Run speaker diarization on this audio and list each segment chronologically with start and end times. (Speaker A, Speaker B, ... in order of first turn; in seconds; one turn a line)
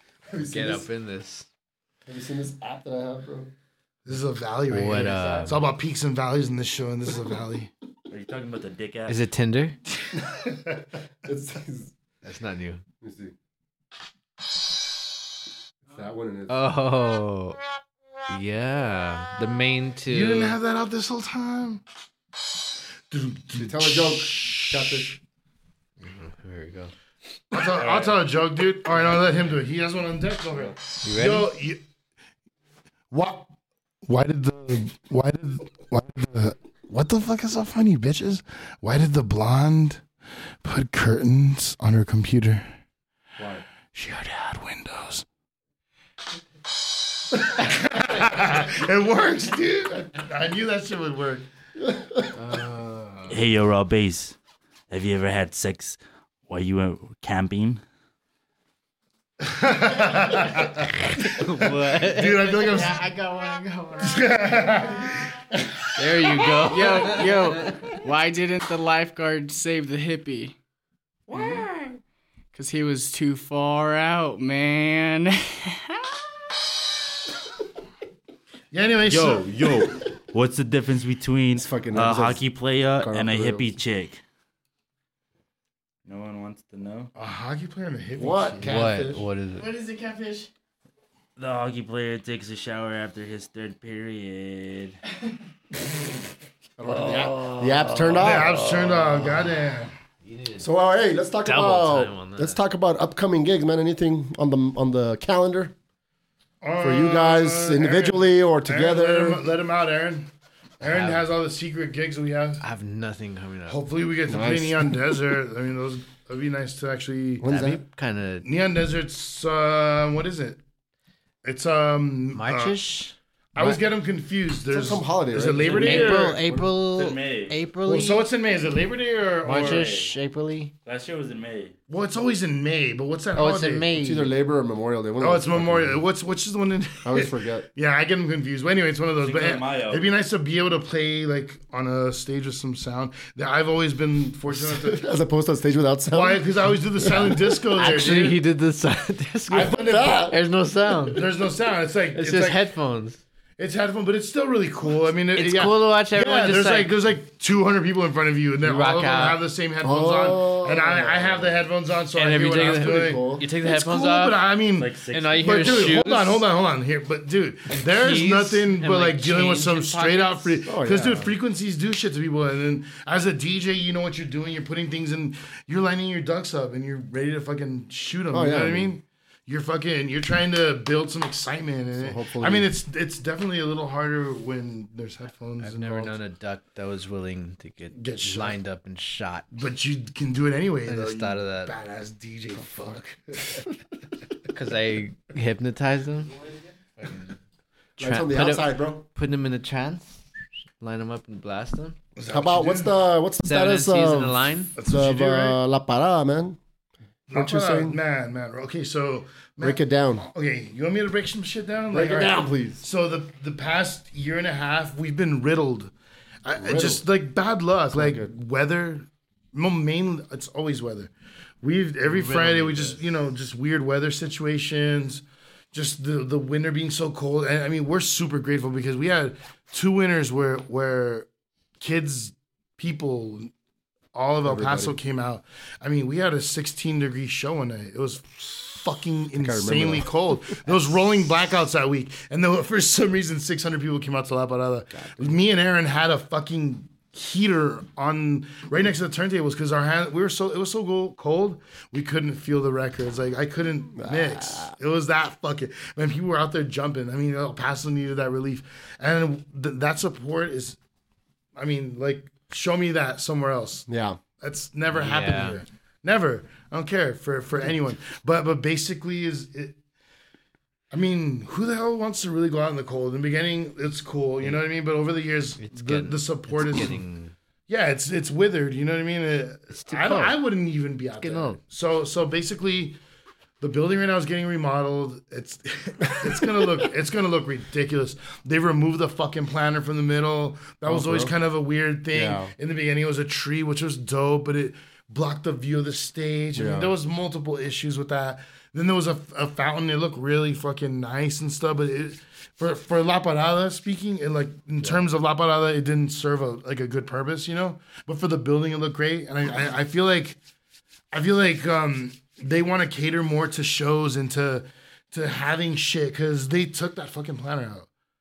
Speaker A: 0.3-0.9
Speaker B: 0.4-1.5
Speaker A: 2.1-3.5
Speaker C: 4.0-7.7
Speaker B: 4.7-5.6
Speaker D: 5.2-5.5
Speaker D: 8.1-9.2
Speaker B: 9.1-9.8
Speaker A: 11.2-11.9
Speaker B: 12.2-12.8
Speaker A: 13.0-13.3
Speaker A: 15.9-16.7
Speaker B: 16.5-17.6
Speaker B: 18.3-20.6
Speaker C: 20.1-21.8
Speaker C: 23.1-25.2
Speaker A: 23.6-25.2
Speaker B: 26.0-26.9
Speaker C: 27.5-31.8
Speaker D: 27.7-28.2
Speaker B: 31.0-31.5
Speaker C: 33.1-33.5
Speaker C: 34.1-40.0
Speaker C: 40.6-42.7
Speaker D: 43.4-43.6
Speaker C: 43.9-45.2
Speaker C: 47.3-51.5
Speaker B: 52.4-53.4
Speaker D: 53.3-54.4
Speaker D: 54.9-57.8
Speaker C: 59.4-63.0
Speaker B: 61.1-62.4
Speaker E: 62.4-64.9
Speaker C: 64.0-65.7
Speaker B: 66.0-67.9
Speaker E: 66.5-70.5
Speaker E: 71.3-71.6
Speaker E: 72.5-76.1
Speaker C: 78.7-79.5
Speaker D: 79.1-84.2
Speaker A: 81.6-82.4
Speaker A: 83.0-83.8
Speaker D: 86.0-87.1
Speaker C: 87.2-88.8
Speaker A: 88.2-89.2
Speaker B: 88.6-89.7
Speaker E: 89.6-90.5
Speaker D: 91.4-95.0
Speaker A: 96.8-98.6
Speaker C: 98.2-99.9
Speaker B: 100.2-100.7
Speaker A: 100.6-105.7
Speaker B: 101.5-102.6
Speaker C: 106.6-110.3
Speaker A: 106.8-109.4
Speaker C: 110.8-112.6
Speaker B: 110.8-111.2
Speaker B: 112.6-113.8
Speaker C: 113.7-117.5
Speaker A: 114.3-115.2
Speaker A: 117.4-117.8
Speaker B: 117.5-118.5
Speaker C: 118.4-120.6
Speaker C: 121.4-122.8
Speaker B: 122.3-123.8
Speaker C: 123.5-126.4
Speaker A: 124.7-126.7
Speaker B: 125.6-128.2
Speaker D: 126.9-127.6
Speaker C: 127.8-130.0
Speaker B: 129.4-130.7
Speaker D: 129.5-130.1
Speaker D: 130.8-131.7
Speaker C: 131.9-133.9
Speaker B: 133.3-134.3
Speaker A: 133.9-136.0
Speaker C: 135.2-145.1
Speaker A: 137.0-137.7
Speaker D: 139.2-140.1
Speaker A: 144.5-147.6
Speaker C: 146.1-148.4
Speaker B: 147.7-151.2
Speaker A: 149.5-150.4
Speaker C: 149.5-150.2
Speaker C: 151.1-152.6
Speaker B: 152.1-153.2
Speaker C: 153.6-186.2
Speaker B: 155.3-157.0
Speaker B: 158.6-159.4
Speaker A: 159.8-161.6
Speaker B: 162.2-164.4
Speaker A: 162.6-163.5
Speaker D: 164.8-165.9
Speaker B: 165.1-166.5
Speaker B: 167.7-170.6
Speaker A: 170.7-171.3
Speaker A: 178.3-178.9
Speaker A: 182.0-182.7
Speaker B: 185.6-189.5
Speaker C: 187.9-188.6
Speaker C: 189.5-193.7
Speaker B: 190.9-191.7
Speaker B: 194.5-196.3
Speaker B: 197.0-197.4
Speaker A: 198.0-199.1
Speaker B: 198.0-200.2
Speaker B: 200.8-202.0
Speaker C: 202.2-203.0
Speaker A: 202.3-206.6
Speaker B: 203.4-204.7
Speaker C: 204.8-205.6
Speaker C: 207.3-215.9
Speaker A: 207.3-208.0
Speaker A: 209.6-210.3
Speaker A: 211.9-212.8
Speaker C: 216.4-221.1
Speaker A: 216.6-217.0
Speaker A: 217.9-218.3
Speaker C: 221.6-231.3
Speaker B: 222.1-223.0
Speaker C: 231.8-233.5
Speaker C: 234.1-260.8
Speaker A: 234.4-235.0
Speaker A: 239.4-240.1
Speaker A: 244.9-245.3
Speaker A: 254.0-254.7
Speaker C: 261.6-263.9
Speaker A: 263.9-264.2
Speaker C: 264.4-269.8
Speaker B: 264.9-265.6
Speaker C: 270.9-277.0
Speaker B: 275.6-277.3
Speaker C: 277.7-283.0
Speaker B: 279.8-280.4
Speaker B: 281.2-281.6
Speaker C: 283.6-310.4
Speaker A: 290.9-291.3
Speaker A: 292.1-292.5
Speaker A: 296.6-296.9
Speaker C: 311.1-317.9